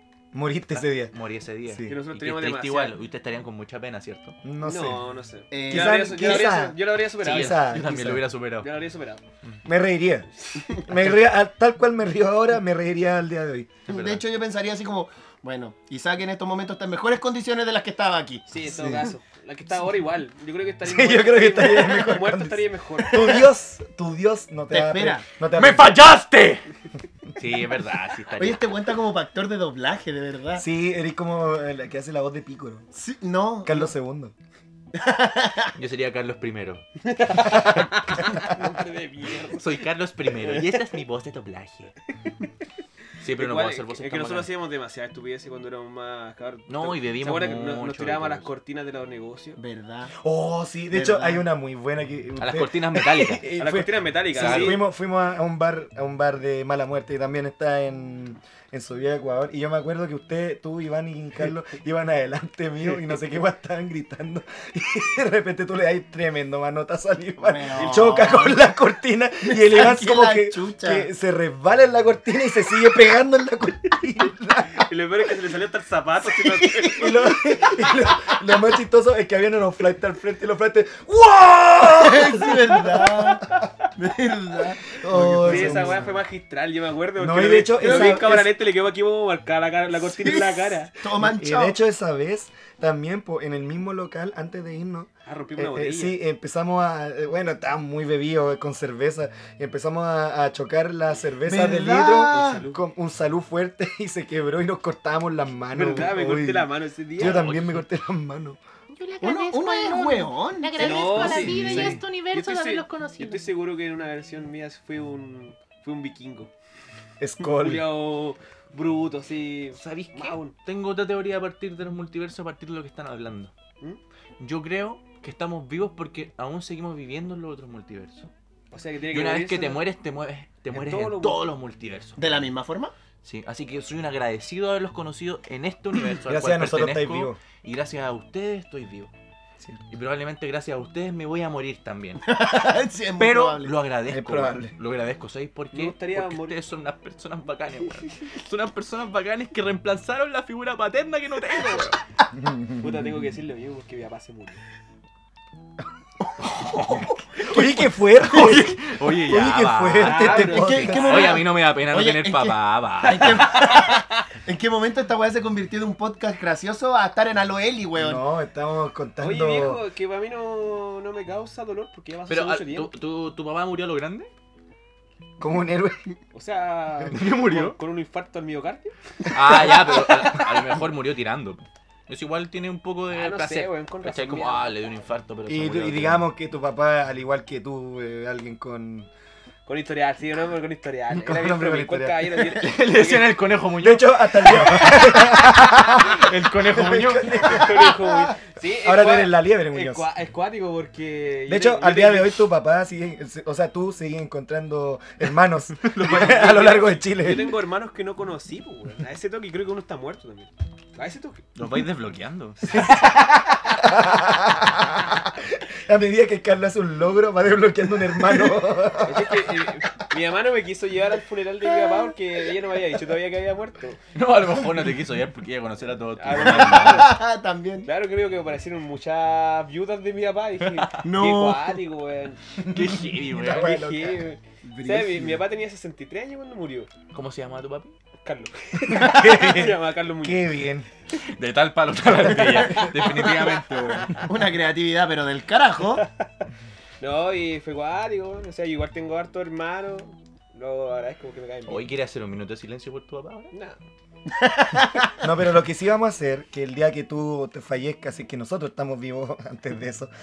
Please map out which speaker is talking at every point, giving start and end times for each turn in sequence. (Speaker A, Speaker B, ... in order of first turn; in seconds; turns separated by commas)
Speaker A: 0.3-1.1, Speaker B: 0.8-4.4, Speaker A: 1.7-1.9, Speaker C: 1.9-2.9, Speaker A: 4.4-5.0, Speaker C: 4.6-7.8, Speaker D: 5.5-6.5, Speaker A: 5.7-8.3, Speaker B: 7.2-8.7, Speaker C: 8.6-9.2, Speaker A: 9.7-13.7, Speaker B: 13.9-14.2, Speaker D: 13.9-18.4, Speaker C: 18.5-23.4, Speaker A: 18.6-19.1, Speaker A: 20.9-25.9, Speaker D: 24.7-25.3, Speaker B: 25.5-26.7, Speaker B: 27.4-28.6, Speaker D: 28.4-30.6, Speaker A: 30.6-32.9, Speaker D: 32.9-33.9, Speaker A: 33.6-34.3, Speaker D: 34.9-35.7, Speaker B: 35.8-36.9, Speaker C: 37.1-39.7, Speaker B: 37.4-37.7, Speaker B: 39.5-41.9, Speaker B: 43.2-44.5, Speaker C: 43.4-49.6, Speaker B: 46.7-48.5, Speaker D: 49.6-50.1, Speaker A: 50.2-74.9, Speaker D: 50.9-51.4, Speaker B: 52.4-53.5, Speaker C: 53.6-54.8, Speaker B: 54.3-54.8, Speaker D: 67.4-68.7, Speaker C: 67.8-68.2, Speaker D: 69.4-71.1, Speaker C: 74.7-77.2, Speaker D: 76.3-78.3, Speaker A: 76.9-83.5, Speaker D: 81.9-86.0, Speaker A: 85.0-86.2, Speaker C: 85.4-90.9, Speaker A: 87.2-88.5, Speaker D: 87.8-88.2, Speaker D: 90.0-91.8, Speaker A: 91.1-108.6, Speaker C: 95.3-96.2, Speaker D: 101.4-102.6, Speaker C: 102.3-102.8, Speaker C: 105.7-107.5, Speaker B: 107.2-107.8, Speaker E: 108.9-113.4, Speaker D: 109.2-111.9, Speaker C: 110.8-116.5, Speaker A: 111.5-112.0, Speaker A: 117.2-117.9, Speaker C: 117.4-120.5, Speaker B: 119.8-123.5, Speaker B: 124.4-128.3, Speaker C: 128.7-129.8, Speaker B: 129.1-132.4, Speaker C: 130.7-131.4, Speaker D: 132.2-132.9, Speaker B: 133.2-139.1, Speaker A: 136.3-137.4, Speaker B: 139.9-142.3, Speaker D: 142.3-143.7, Speaker B: 143.2-152.0, Speaker A: 144.1-144.7, Speaker C: 145.7-146.6, Speaker A: 152.4-152.9, Speaker C: 152.8-154.6, Speaker B: 156.4-163.6, Speaker A: 157.4-161.3, Speaker C: 160.0-161.1, Speaker D: 160.3-168.2, Speaker C: 163.5-164.0, Speaker A: 167.9-169.8, Speaker C: 169.2-172.9, Speaker B: 172.3-174.3, Speaker A: 175.4-176.0, Speaker C: 176.3-178.9, Speaker B: 177.1-177.8, Speaker B: 179.3-186.3, Speaker C: 183.1-184.7, Speaker A: 185.5-189.1, Speaker C: 189.7-193.3, Speaker A: 191.1-192.4, Speaker B: 192.5-197.7, Speaker A: 193.8-200.1, Speaker C: 197.4-202.4, Speaker A: 201.5-207.5, Speaker B: 205.8-206.7, Speaker C: 206.0-211.4, Speaker B: 211.6-212.6, Speaker C: 212.7-212.9, Speaker A: 212.7-219.7, Speaker C: 219.0-224.0, Speaker B: 224.1-227.2, Speaker C: 226.2-227.1, Speaker D: 226.4-227.9, Speaker C: 227.8-232.4, Speaker B: 230.8-231.0, Speaker D: 231.0-231.7, Speaker A: 232.6-235.4, Speaker B: 232.7-233.8, Speaker C: 233.4-236.9, Speaker B: 237.1-237.9, Speaker C: 238.2-240.5, Speaker A: 238.9-239.6, Speaker B: 239.0-239.7, Speaker A: 240.2-240.9, Speaker B: 241.2-244.2, Speaker C: 242.7-243.4, Speaker D: 244.2-246.1, Speaker C: 247.0-251.8, Speaker B: 251.7-253.5, Speaker C: 253.5-253.8, Speaker D: 254.3-255.2, Speaker A: 255.2-260.1